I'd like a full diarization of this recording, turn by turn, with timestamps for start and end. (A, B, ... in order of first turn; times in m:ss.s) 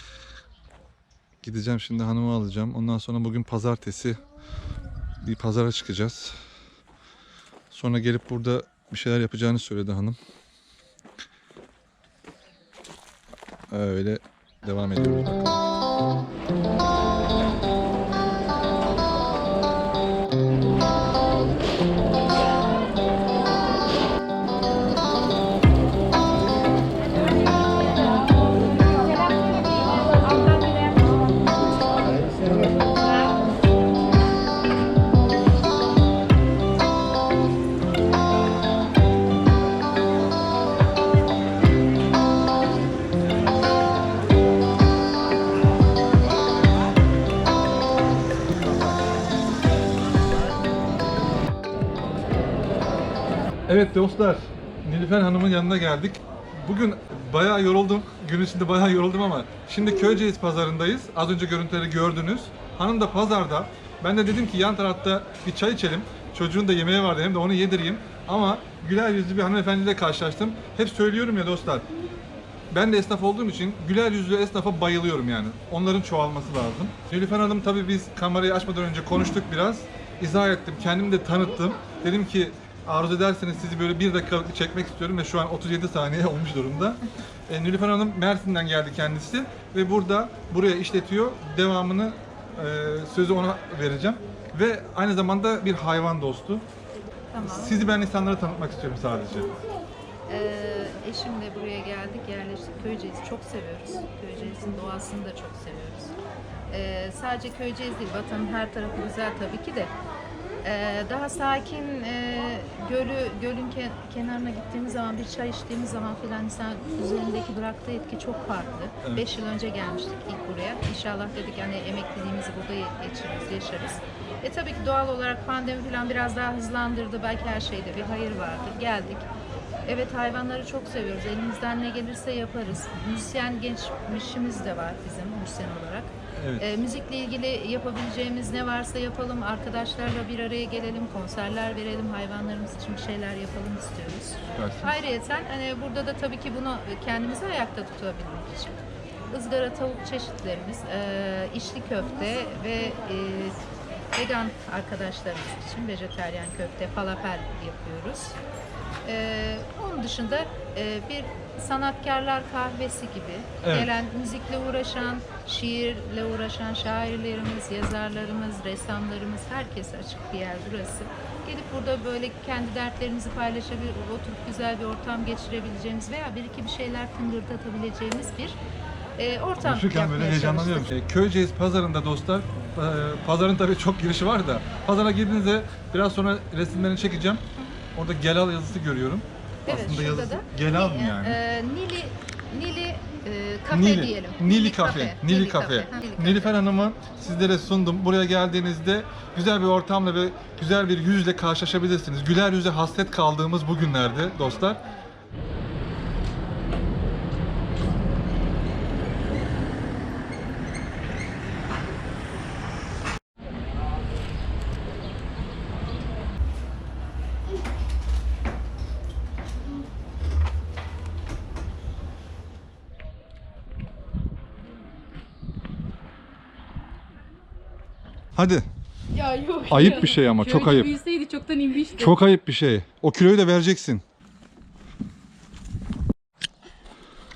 0:01.4-0:04.2 A
0:05.2-0:06.4 A
0:07.7-0:10.2 A
0:13.7-0:15.6 A
0:30.4-0:30.9 B
0:53.7-1:11.9 A
1:12.7-1:36.7 A
1:37.3-1:37.8 B
1:37.4-1:39.5 A
1:40.3-1:46.2 B
1:46.7-1:49.9 B
1:50.6-2:09.3 B
1:59.0-1:59.3 A
2:09.8-2:33.6 B
2:16.4-2:16.7 A
2:24.5-2:25.0 A
2:34.1-2:38.4 B
2:39.0-2:58.6 B
2:43.6-2:43.9 A
2:59.2-3:00.9 B
2:59.6-3:11.4 A
3:09.6-3:16.6 B
3:13.7-3:24.8 A
3:48.3-3:48.7 A
3:49.1-3:49.8 B
3:49.7-3:50.9 A
3:49.7-3:52.1 C
3:51.9-3:54.0 A